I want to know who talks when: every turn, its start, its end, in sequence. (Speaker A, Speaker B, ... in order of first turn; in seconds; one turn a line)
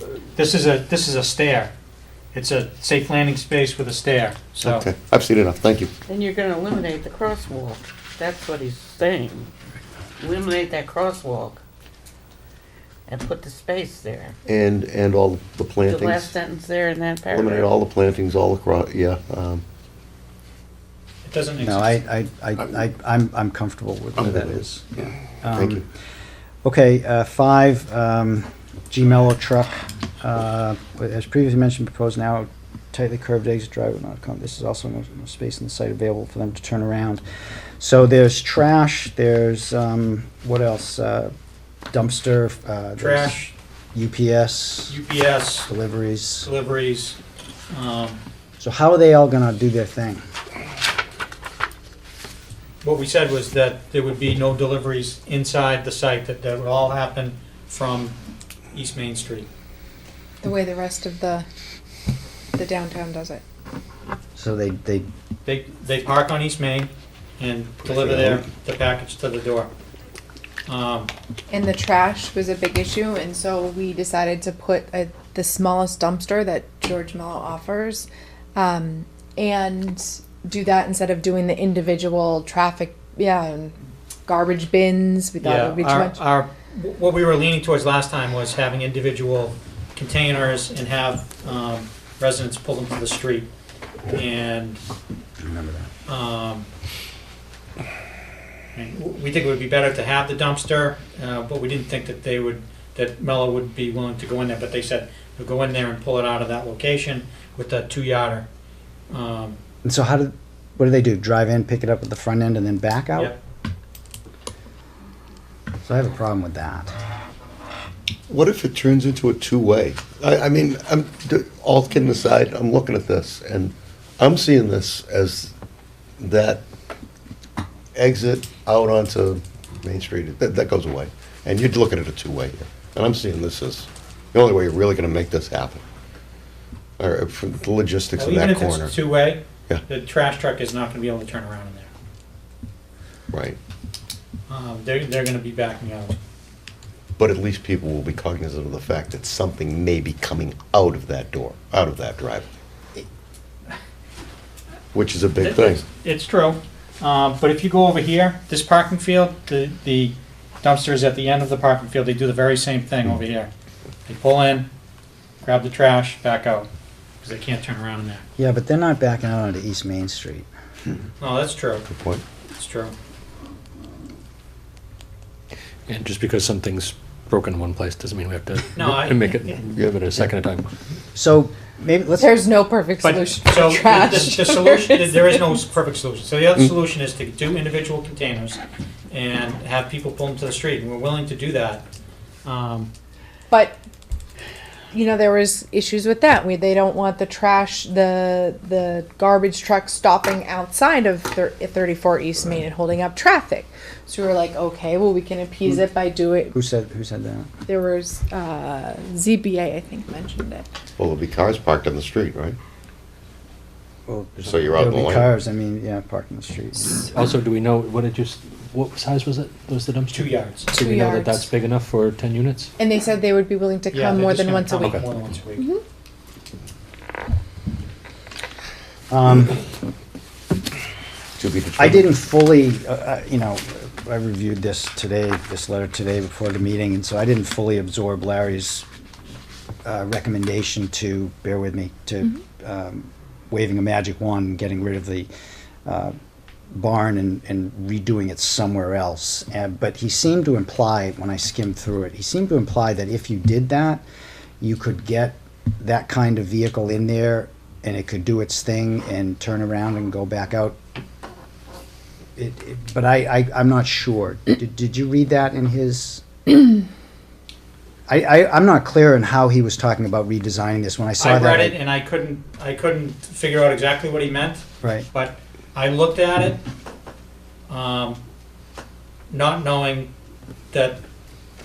Speaker A: 0.3-1.7
Speaker A: 2.3-4.9
Speaker B: 4.6-5.9
Speaker C: 6.1-9.5
Speaker C: 10.2-11.6
Speaker C: 13.1-14.3
Speaker B: 14.5-16.3
Speaker C: 15.9-17.7
Speaker B: 17.3-19.6
Speaker A: 21.2-22.0
Speaker D: 21.6-25.9
Speaker B: 24.2-24.5
Speaker B: 25.5-25.8
Speaker D: 26.6-37.2
Speaker D: 37.8-41.3
Speaker D: 41.9-43.4
Speaker A: 43.0-43.5
Speaker D: 44.0-45.0
Speaker A: 44.9-45.7
Speaker D: 45.7-46.5
Speaker A: 46.4-47.2
Speaker A: 47.7-48.2
Speaker D: 48.6-50.2
Speaker A: 52.8-58.1
Speaker A: 58.7-59.5
Speaker E: 60.4-61.5
Speaker E: 62.5-63.4
Speaker D: 64.4-65.1
Speaker A: 65.5-69.7
Speaker A: 70.7-71.1
Speaker E: 71.5-86.2
Speaker A: 85.4-93.5
Speaker A: 94.1-94.8
Speaker D: 95.4-95.9
Speaker A: 96.1-96.7
Speaker A: 98.8-108.5
Speaker A: 109.1-109.6
Speaker D: 109.8-113.3
Speaker D: 115.8-116.9
Speaker B: 118.3-125.5
Speaker B: 126.2-126.6
Speaker B: 128.0-135.8
Speaker B: 137.0-138.9
Speaker A: 138.2-141.9
Speaker B: 143.3-143.6
Speaker A: 144.5-146.2
Speaker B: 147.2-152.5
Speaker B: 154.9-155.8
Speaker A: 155.4-163.5
Speaker A: 164.1-164.7
Speaker A: 165.4-166.7
Speaker A: 167.2-168.3
Speaker D: 168.4-170.5
Speaker A: 171.2-171.9
Speaker B: 171.9-172.2
Speaker A: 172.6-172.9
Speaker F: 175.9-180.7
Speaker A: 178.8-179.6
Speaker D: 181.2-182.3
Speaker E: 182.2-185.5
Speaker A: 183.0-188.6
Speaker A: 189.1-191.9
Speaker A: 192.4-192.9
Speaker E: 193.5-193.8
Speaker E: 194.9-206.6
Speaker D: 206.5-207.5
Speaker E: 207.7-210.7
Speaker B: 211.0-212.6
Speaker D: 214.1-217.1
Speaker B: 214.4-215.3
Speaker F: 217.1-222.7
Speaker A: 220.1-220.7
Speaker E: 220.7-221.5
Speaker E: 222.8-225.0
Speaker A: 223.9-225.7
Speaker F: 224.8-225.3
Speaker D: 229.1-229.6
Speaker B: 231.4-232.1
Speaker D: 231.8-238.9
Speaker D: 239.8-245.3
Speaker D: 245.8-246.2
Speaker D: 246.7-254.0
Speaker D: 254.6-260.8
Speaker D: 262.4-266.3
Speaker D: 268.1-271.8
Speaker A: 271.2-276.6
Speaker D: 274.8-275.1
Speaker A: 277.7-278.2
Speaker A: 279.3-280.1
Speaker A: 280.7-281.0